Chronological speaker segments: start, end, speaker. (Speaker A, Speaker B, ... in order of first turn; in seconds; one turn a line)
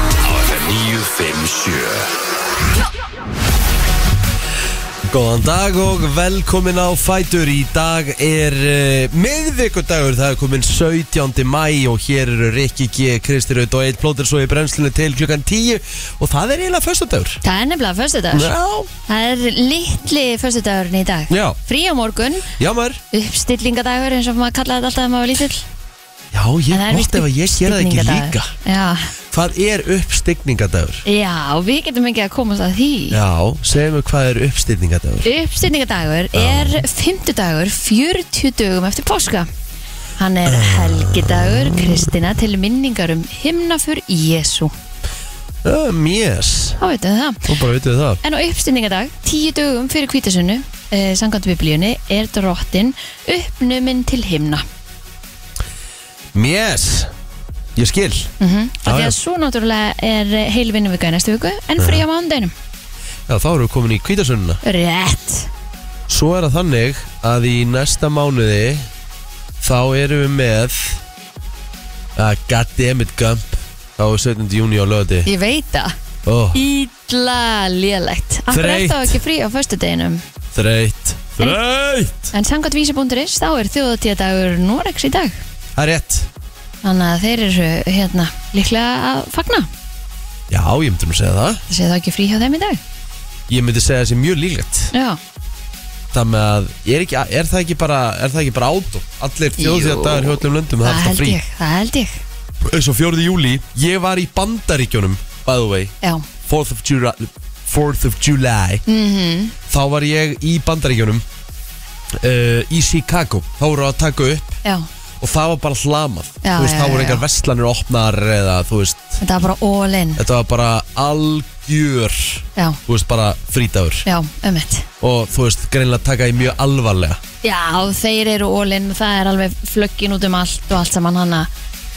Speaker A: 0.2-2.1
Speaker A: 5.1-17.4
Speaker B: 17.4-18.5
Speaker A: 18.3-18.9
Speaker B: 19.1-22.5
Speaker A: 21.3-21.6
Speaker A: 22.6-23.0
Speaker B: 23.1-25.6
Speaker A: 26.3-28.5
Speaker B: 26.7-29.1
Speaker A: 29.3-31.0
Speaker B: 31.1-33.2
Speaker A: 33.1-35.3
Speaker B: 35.2-39.5
Speaker A: 36.3-36.8
Speaker B: 40.2-44.7
Speaker A: 40.5-42.1
Speaker A: 45.6-46.8
Speaker B: 46.8-47.5
Speaker A: 47.5-48.2
Speaker B: 48.2-54.6
Speaker A: 56.3-57.1
Speaker A: 57.7-58.3
Speaker B: 58.4-62.5
Speaker A: 58.8-59.1
Speaker A: 61.8-62.0
Speaker A: 63.3-64.6
Speaker B: 64.6-65.5
Speaker A: 66.1-68.9
Speaker A: 69.6-71.0
Speaker A: 72.2-75.3
Speaker B: 75.2-76.0
Speaker A: 76.2-76.6
Speaker B: 76.5-80.2
Speaker A: 78.5-79.2
Speaker A: 80.5-82.3
Speaker B: 82.3-85.4
Speaker A: 85.7-86.3
Speaker B: 86.8-89.7
Speaker A: 90.5-91.6
Speaker B: 91.7-92.8
Speaker A: 93.5-94.9
Speaker B: 94.9-95.2
Speaker A: 96.1-101.4
Speaker B: 99.6-102.2
Speaker A: 102.6-105.9
Speaker B: 106.0-106.3
Speaker A: 106.5-108.8
Speaker B: 108.9-109.5
Speaker A: 109.7-111.2
Speaker A: 112.2-114.6
Speaker A: 115.2-119.2
Speaker B: 116.4-117.2
Speaker B: 119.2-120.2
Speaker A: 120.2-124.0
Speaker B: 124.0-124.9
Speaker A: 125.0-127.2
Speaker B: 127.4-131.5